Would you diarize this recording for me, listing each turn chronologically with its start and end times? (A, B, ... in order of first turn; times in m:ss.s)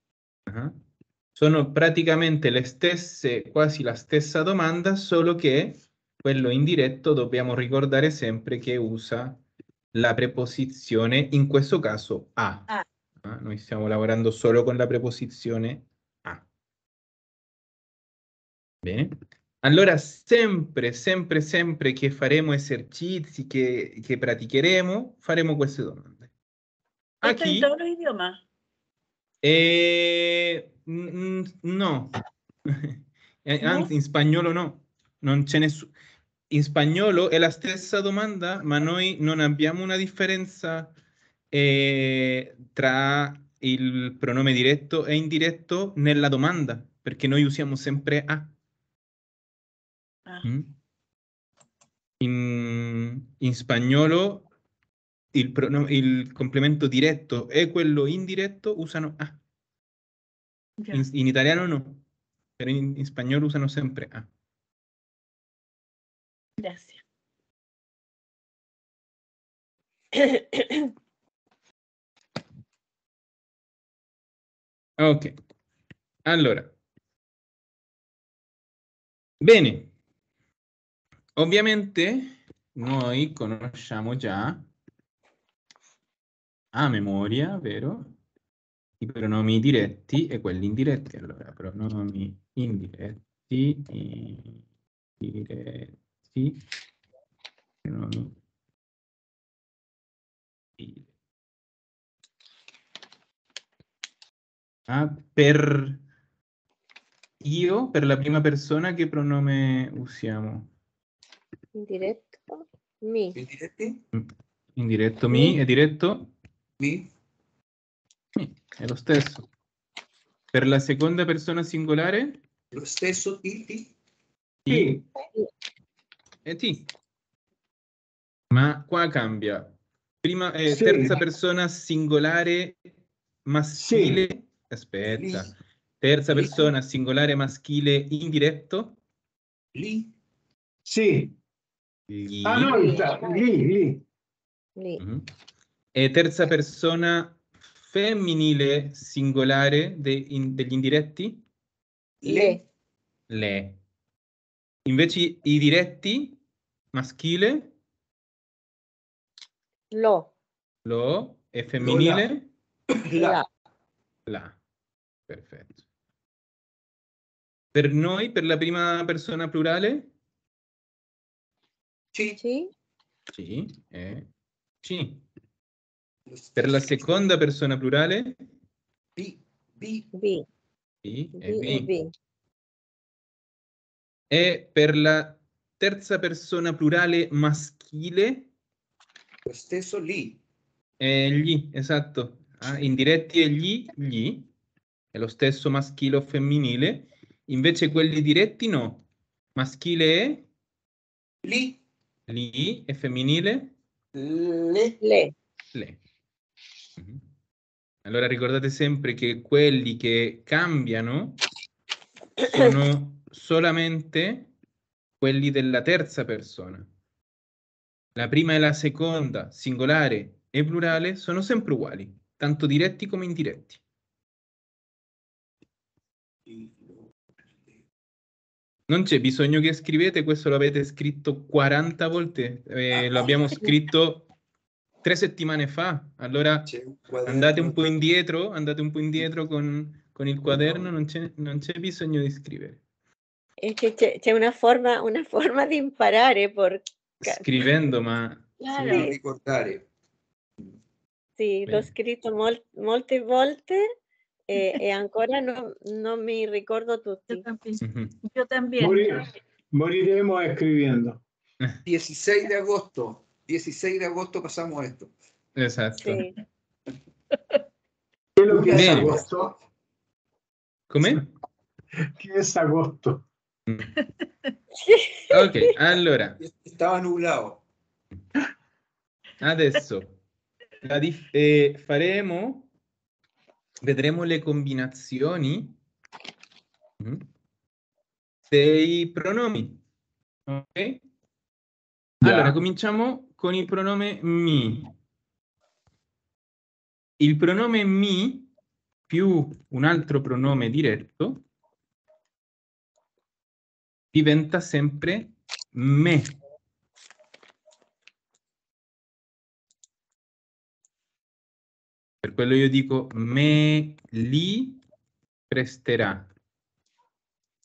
0:00.5-0:00.8 A
0:01.4-0:09.4 A
0:09.9-0:12.7 A
0:13.2-0:16.4 A
0:18.8-0:26.3 A
0:27.2-0:27.7 A
0:27.2-0:28.4 B
0:29.4-0:32.1 A
0:32.7-0:35.9 A
0:33.6-0:33.9 B
0:36.5-0:40.9 A
0:41.5-0:48.5 A
0:50.4-0:50.7 A
0:52.2-0:54.5 A
0:55.3-0:59.4 A
1:00.8-1:01.1 B
1:00.9-1:02.0 A
1:02.6-1:04.3 A
1:06.6-1:07.0 B
1:10.2-1:10.4 C
1:15.0-1:15.3 A
1:16.2-1:16.7 A
1:19.4-1:19.9 A
1:21.4-1:24.7 A
1:26.7-1:28.2 A
1:29.0-1:34.6 A
1:35.2-1:36.6 A
1:37.8-1:38.4 A
1:40.8-1:41.1 A
1:44.9-1:46.0 A
1:47.4-1:50.7 A
1:51.7-1:53.4 C
1:53.3-1:54.0 D
1:54.1-1:56.3 A
1:55.3-1:55.6 C
1:56.8-1:57.1 D
1:58.4-1:59.5 A
2:00.5-2:02.4 A
2:02.7-2:03.9 D
2:04.6-2:05.0 A
2:04.7-2:05.0 E
2:06.4-2:06.9 A
2:08.5-2:12.8 A
2:10.7-2:11.2 E
2:13.4-2:19.0 A
2:13.8-2:14.2 E
2:15.1-2:15.5 D
2:16.3-2:16.7 D
2:19.7-2:20.1 D
2:20.8-2:21.4 E
2:22.1-2:22.8 A
2:22.4-2:24.0 E
2:22.6-2:23.5 C
2:24.8-2:25.0 C
2:25.0-2:25.3 A
2:25.9-2:31.4 A
2:32.2-2:32.6 D
2:32.2-2:32.6 C
2:33.3-2:33.8 A
2:34.8-2:36.4 A
2:36.9-2:37.7 A
2:39.9-2:40.3 C
2:40.8-2:42.5 A
2:41.8-2:42.3 D
2:42.9-2:43.4 D
2:43.2-2:43.5 C
2:44.3-2:44.6 A
2:45.3-2:45.8 A
2:47.7-2:50.1 A
2:52.1-2:52.4 D
2:52.4-2:52.7 C
2:53.4-2:54.3 A
2:54.8-2:55.2 A
2:56.3-2:57.0 D
2:56.6-2:58.4 A
2:59.2-3:00.1 D
3:00.1-3:00.5 C
3:01.0-3:01.9 A
3:01.4-3:02.1 C
3:04.3-3:08.5 A
3:09.5-3:10.4 D
3:11.0-3:14.5 A
3:15.1-3:20.5 A
3:21.4-3:21.8 D
3:22.3-3:23.8 A
3:24.2-3:25.0 D
3:25.0-3:25.4 C
3:25.7-3:26.0 A
3:27.0-3:27.2 A
3:28.0-3:31.4 A
3:32.4-3:34.5 A
3:35.2-3:36.9 A
3:38.2-3:43.8 A
3:46.5-3:47.1 D
3:48.9-3:54.3 A
3:55.0-3:56.7 A
3:56.7-3:57.8 D
3:57.2-4:02.8 A
4:00.5-4:00.9 D
4:03.6-4:07.4 C
4:07.2-4:08.5 A
4:08.6-4:09.2 C
4:08.7-4:09.8 D
4:11.4-4:13.8 C
4:11.7-4:11.9 A
4:14.5-4:17.4 C
4:17.3-4:19.2 B
4:17.8-4:18.2 A
4:18.8-4:21.2 E
4:21.8-4:25.1 D
4:25.6-4:26.2 A
4:26.0-4:26.4 C
4:28.4-4:29.6 E
4:28.5-4:29.3 D
4:28.7-4:29.2 A
4:30.9-4:31.3 A
4:32.2-4:33.2 E
4:34.8-4:35.6 C
4:35.3-4:36.4 A
4:36.4-4:37.6 D
4:39.4-4:40.2 A
4:40.8-4:42.7 A
4:43.8-4:45.8 A
4:47.0-4:47.3 A
4:48.5-4:49.8 A
4:50.5-4:51.0 A
4:52.2-4:54.9 A
4:57.2-4:58.5 A
4:59.1-5:01.4 A
5:04.1-5:06.4 A
5:12.2-5:14.8 A
5:15.5-5:16.3 A